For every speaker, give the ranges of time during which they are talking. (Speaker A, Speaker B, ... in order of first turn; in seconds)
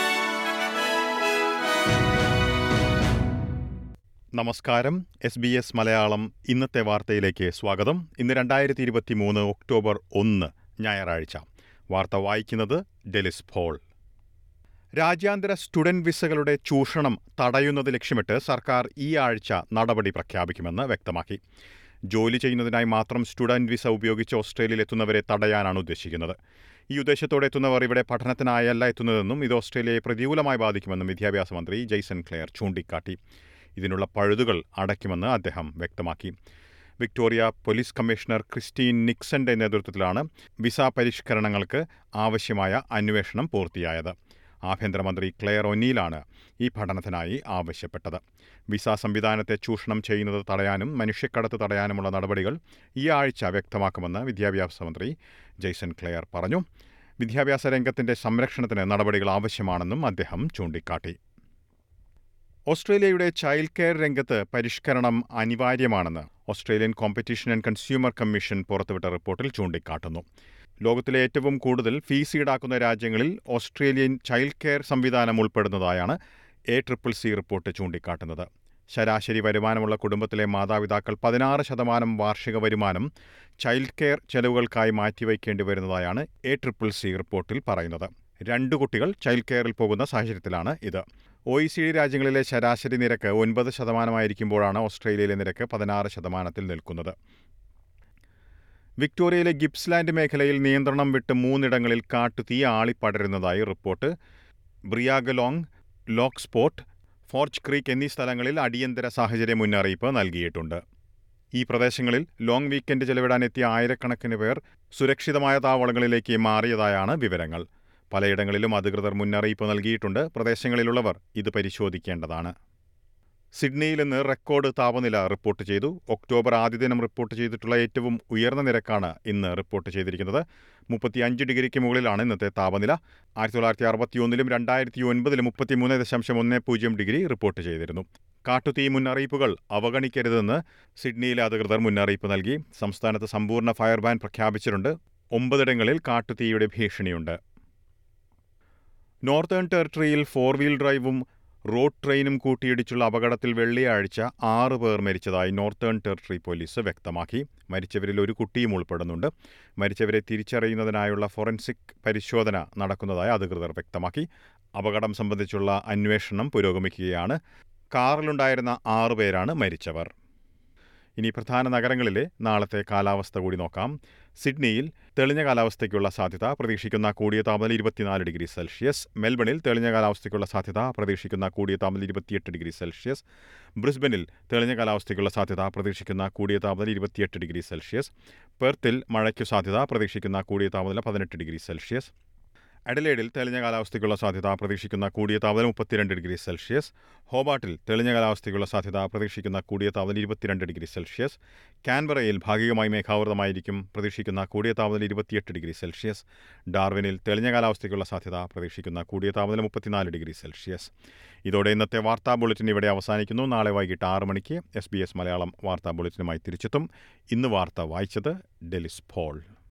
Speaker A: 4.3-13.8, 15.0-21.4, 22.1-26.4, 26.9-33.2, 33.8-36.3, 37.0-44.1, 44.7-56.6, 57.2-61.2, 62.7-70.2, 70.8-76.2, 76.7-97.1, 99.0-104.1, 104.9-110.8, 111.5-122.5, 123.5-147.4, 149.2-167.4, 167.9-170.1, 171.2-183.2, 183.8-192.1, 192.9-210.9, 211.5-219.4